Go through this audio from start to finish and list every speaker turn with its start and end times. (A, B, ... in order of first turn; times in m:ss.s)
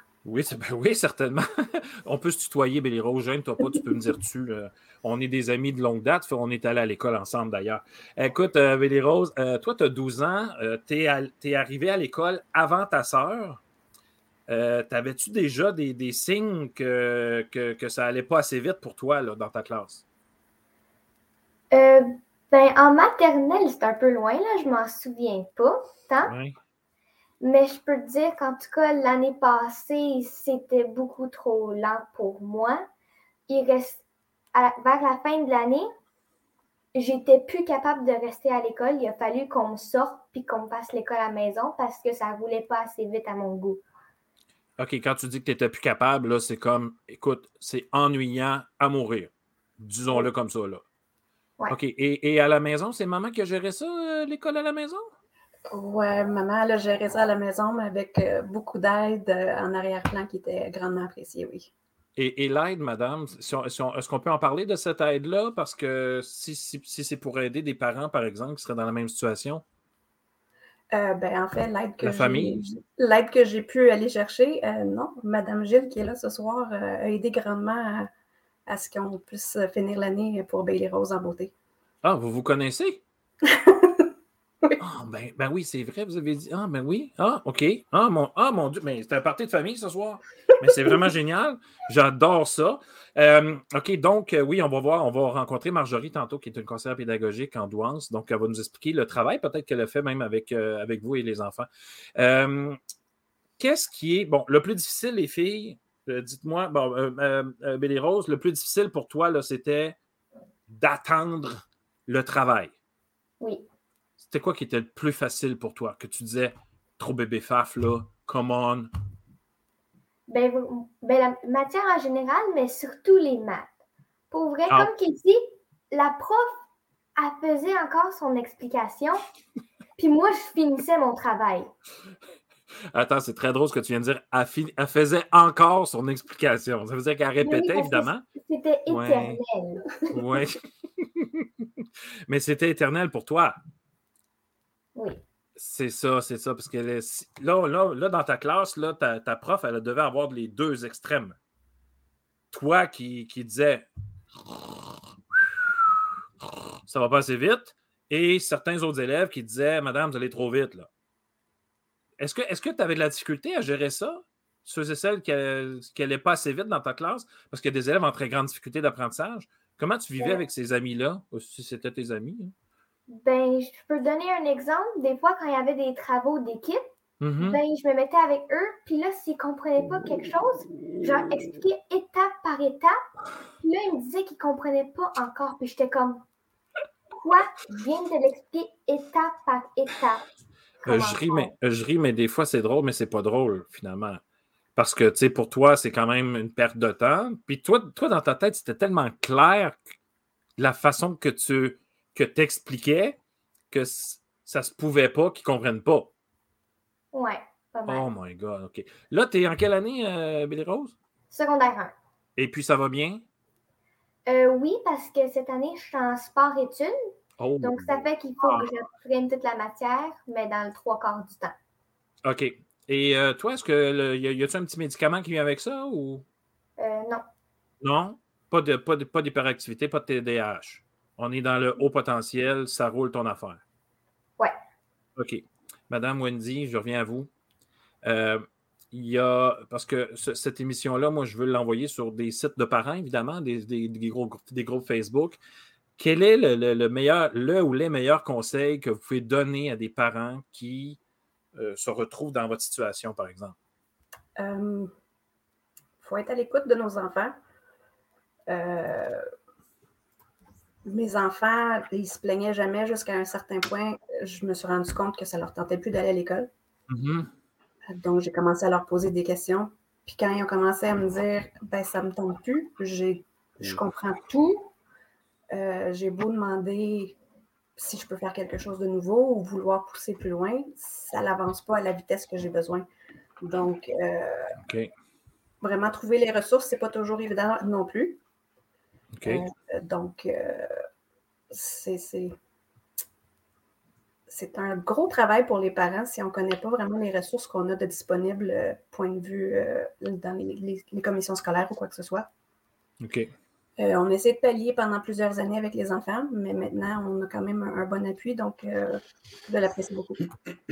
0:00.2-0:13.6 A
0:14.5-0:20.0 A
0:21.7-0:26.3 B
0:26.2-0:26.6 A
0:27.4-0:32.8 B
0:33.5-0:34.0 B
0:34.5-0:35.8 B
0:36.9-0:43.8 B
0:44.8-0:50.8 A
0:51.7-0:55.1 A
0:55.7-1:01.7 C
1:02.2-1:09.6 A
1:10.9-1:18.1 C
1:12.0-1:12.6 A
1:18.7-1:21.5 C
1:22.0-1:23.0 A
1:23.5-1:24.0 C
1:24.8-1:42.8 A
1:43.6-1:50.0 A
1:50.7-1:52.7 A
1:54.2-1:58.9 A
2:00.3-2:03.7 B
2:04.3-2:05.4 B
2:05.9-2:06.6 B
2:07.2-2:09.2 B
2:10.0-2:11.7 B
2:12.9-2:18.2 A
2:17.4-2:20.2 B
2:18.9-2:19.4 A
2:20.1-2:23.6 A
2:24.9-2:25.2 B
2:25.6-2:31.4 A
2:32.5-2:33.9 A
2:34.4-2:35.6 A
2:36.9-2:40.9 A
2:42.2-2:52.5 A
2:53.1-2:56.8 B
2:57.2-2:57.6 A
2:57.4-3:03.0 B
3:03.6-3:06.2 B
3:07.1-3:10.2 B
3:10.8-3:11.5 B
3:10.8-3:14.2 A
3:14.8-3:19.9 A
3:20.6-3:23.2 A
3:23.7-3:26.1 A
3:27.1-3:28.1 B
3:27.8-3:30.9 A
3:31.3-3:31.9 B
3:32.4-3:33.2 A
3:34.2-3:36.9 B
3:37.4-3:38.7 A
3:37.6-3:41.5 B
3:42.2-3:46.2 A
3:46.8-3:47.2 B
3:47.8-3:53.6 A
3:55.2-3:57.3 A
3:58.0-4:05.4 A
4:06.0-4:11.0 A
4:11.6-4:13.5 A
4:14.4-4:14.9 C
4:16.0-4:17.4 C
4:18.5-4:19.2 C
4:20.8-4:26.5 C
4:26.9-4:27.3 A
4:27.9-4:34.7 C
4:35.5-4:37.2 C
4:37.8-4:42.8 C
4:43.4-4:44.5 C
4:44.6-4:44.9 A
4:45.6-4:48.2 C
4:49.2-4:49.4 A
4:49.2-4:50.7 C
4:51.5-4:52.4 C
4:54.3-5:02.3 C
5:03.0-5:03.3 A
5:03.8-5:10.3 C